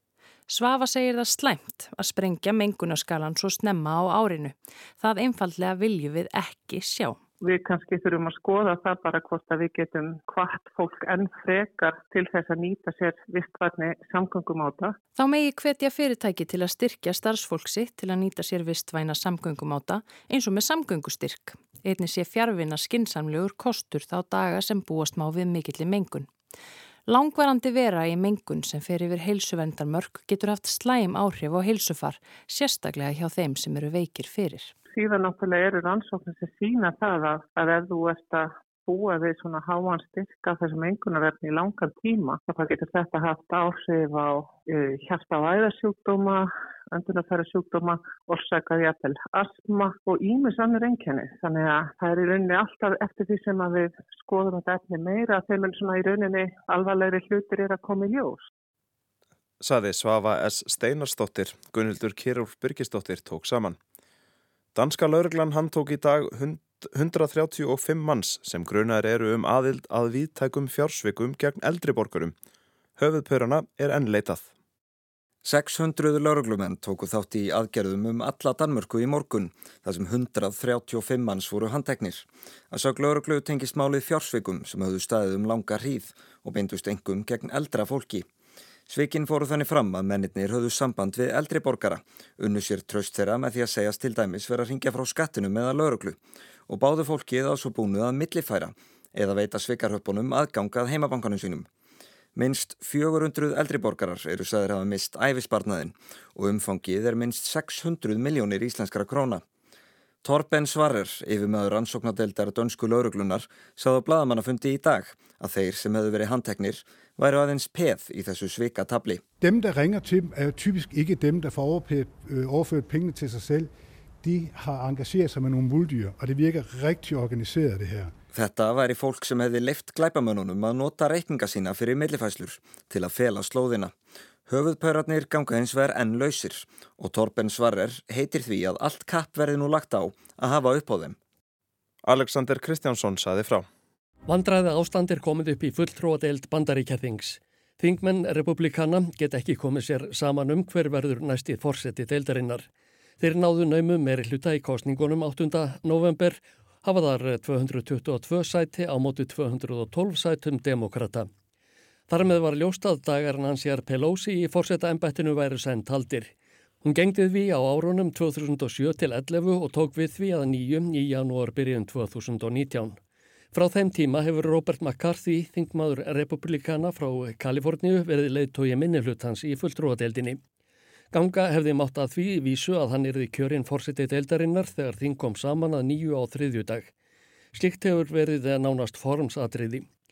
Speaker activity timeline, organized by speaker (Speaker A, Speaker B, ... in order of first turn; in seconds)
Speaker A: 0.5-7.2, 15.2-26.3, 27.1-34.7
Speaker B: 7.4-14.9, 34.9-58.5
Speaker C: 59.6-63.8, 64.7-72.3, 73.0-74.5, 142.0-143.7
Speaker D: 75.4-88.3, 88.9-101.7, 102.3-109.4, 110.2-119.2, 128.3-133.9, 134.5-141.2
Speaker E: 119.4-123.7, 124.2-128.1
Speaker F: 144.3-152.7, 153.2-161.3, 162.1-173.0, 173.5-180.4, 181.1-186.9, 187.5-189.8